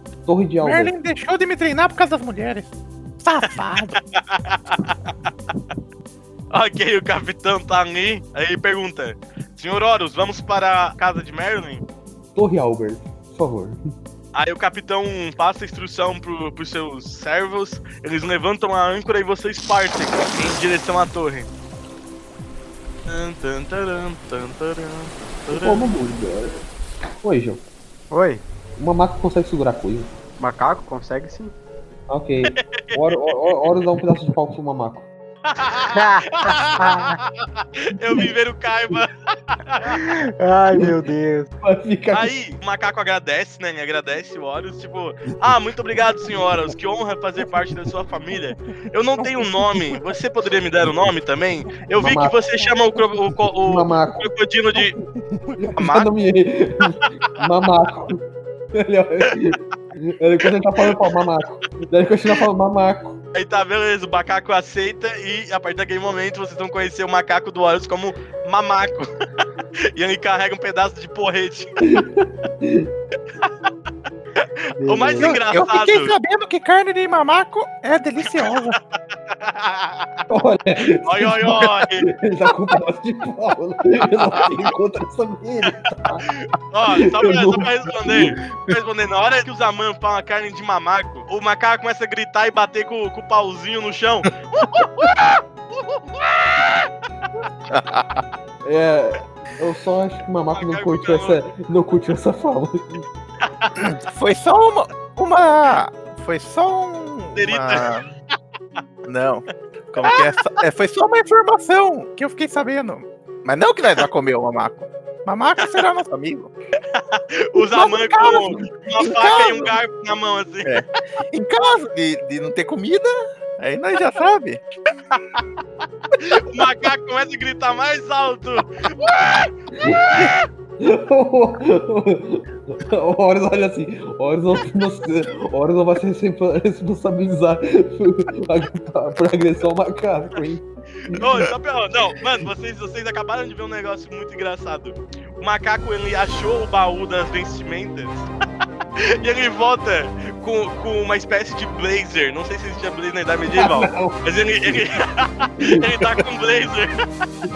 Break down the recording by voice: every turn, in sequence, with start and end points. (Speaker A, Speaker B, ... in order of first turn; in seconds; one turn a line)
Speaker A: 0.2-0.9
Speaker B: 0.6-2.7
Speaker B: 3.2-4.0
Speaker C: 4.3-4.8
Speaker C: 6.5-11.8
Speaker A: 12.3-13.8
Speaker C: 14.3-21.5
Speaker C: 23.1-25.9
Speaker A: 25.5-27.6
Speaker D: 28.1-28.4
Speaker A: 28.8-30.1
Speaker D: 30.4-31.6
Speaker A: 32.1-35.1
Speaker C: 32.7-33.6
Speaker C: 35.5-37.1
Speaker D: 35.9-37.2
Speaker C: 37.8-40.0
Speaker D: 39.9-41.5
Speaker A: 40.8-41.0
Speaker A: 41.6-42.3
Speaker C: 42.1-55.0
Speaker A: 52.0-52.4
Speaker A: 53.6-54.3
Speaker A: 55.6-63.2
Speaker C: 63.3-69.1
Speaker C: 70.0-71.8
Speaker A: 71.9-72.9
Speaker C: 74.4-76.2
Speaker D: 74.8-75.4
Speaker B: 75.2-78.8
Speaker C: 78.3-78.8
Speaker C: 79.3-80.1
Speaker A: 80.3-86.2
Speaker C: 81.0-82.1
Speaker C: 86.7-96.9
Speaker A: 87.0-88.8
Speaker B: 97.7-98.2
Speaker A: 98.7-103.0
Speaker C: 100.5-101.4
Speaker C: 103.5-103.7
Speaker B: 103.8-108.1
Speaker C: 107.4-107.9
Speaker B: 109.0-116.5
Speaker C: 110.0-110.3
Speaker C: 116.9-120.8
Speaker B: 117.6-119.7
Speaker B: 120.6-124.6
Speaker C: 125.1-125.4
Speaker C: 126.1-130.4
Speaker A: 129.8-141.5
Speaker C: 141.1-148.3
Speaker C: 149.2-157.0
Speaker A: 153.5-154.9
Speaker A: 155.7-156.2